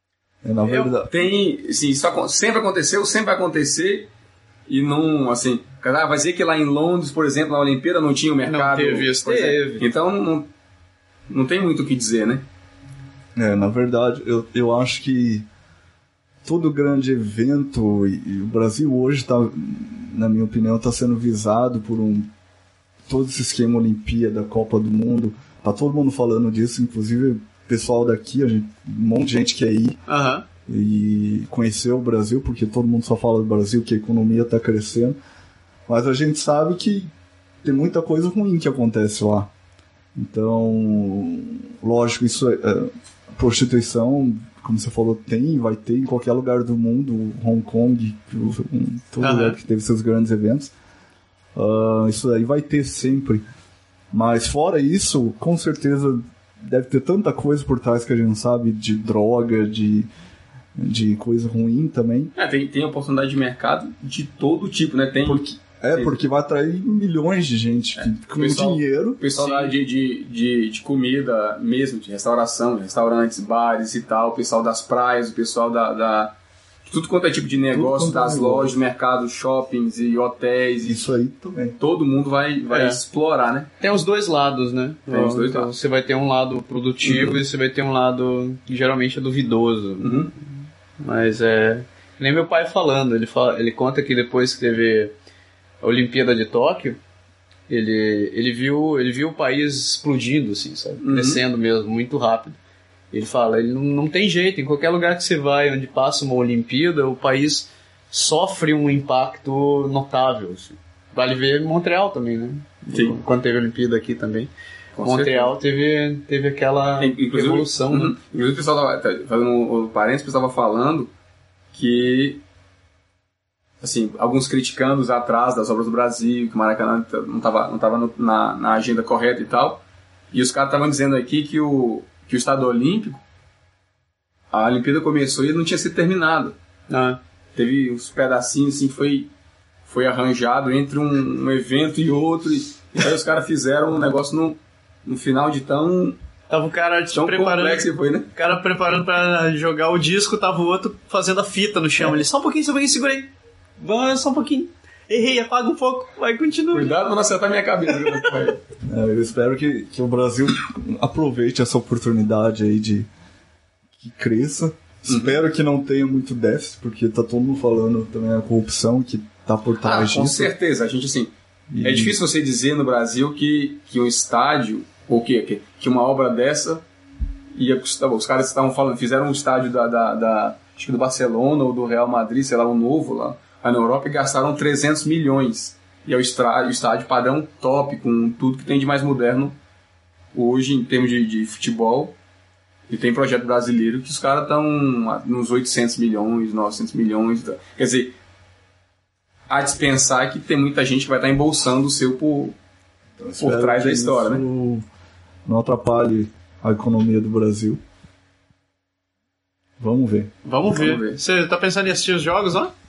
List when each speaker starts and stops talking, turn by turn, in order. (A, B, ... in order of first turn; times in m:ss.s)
0:00.4-0:01.3 A
0:00.6-0:00.9 B
0:01.1-0:04.1 C
0:04.7-0:10.5 C
0:08.4-0:09.8 B
0:11.3-0:12.4 C
0:13.4-0:15.4 A
0:16.4-0:22.3 A
0:23.1-0:30.0 A
0:30.1-0:30.4 B
0:30.7-0:35.2 A
0:35.9-0:37.1 A
0:37.6-0:39.5 A
0:40.1-0:50.7 A
0:49.2-0:49.6 B
0:51.5-0:53.4 A
0:54.1-1:00.1 A
1:00.8-1:02.3 A
1:02.4-1:06.1 C
1:05.2-1:09.2 A
1:08.0-1:16.3 C
1:09.4-1:09.7 B
1:16.8-1:21.1 C
1:17.7-1:18.8 A
1:20.8-1:21.8 A
1:21.8-1:23.7 C
1:22.7-1:23.0 B
1:23.8-1:35.1 B
1:25.1-1:25.7 C
1:27.0-1:27.4 C
1:30.0-1:30.3 C
1:35.8-1:37.0 B
1:37.7-1:42.6 B
1:41.0-1:41.4 C
1:43.1-1:54.5 B
1:52.9-1:53.2 C
1:55.0-1:55.5 C
1:55.0-1:58.1 B
1:57.0-2:01.1 C
2:01.7-2:02.4 C
2:03.8-2:13.2 C
2:14.5-2:16.5 C
2:16.9-2:17.2 B
2:17.5-2:19.3 C
2:19.9-2:26.2 C
2:26.5-2:36.9 B
2:27.1-2:28.3 C
2:36.7-2:38.6 C
2:38.8-2:43.1 A
2:44.0-2:50.5 A
2:45.1-2:45.3 C
2:49.8-2:56.8 C
2:51.7-2:52.2 A
2:57.5-3:09.6 C
3:10.3-3:12.1 C
3:12.9-3:18.1 C
3:19.5-3:22.6 C
3:23.2-3:24.8 A
3:23.4-3:24.4 C
3:25.4-3:27.8 A
3:29.8-3:30.3 A
3:30.4-3:32.7 B
3:30.7-3:31.2 C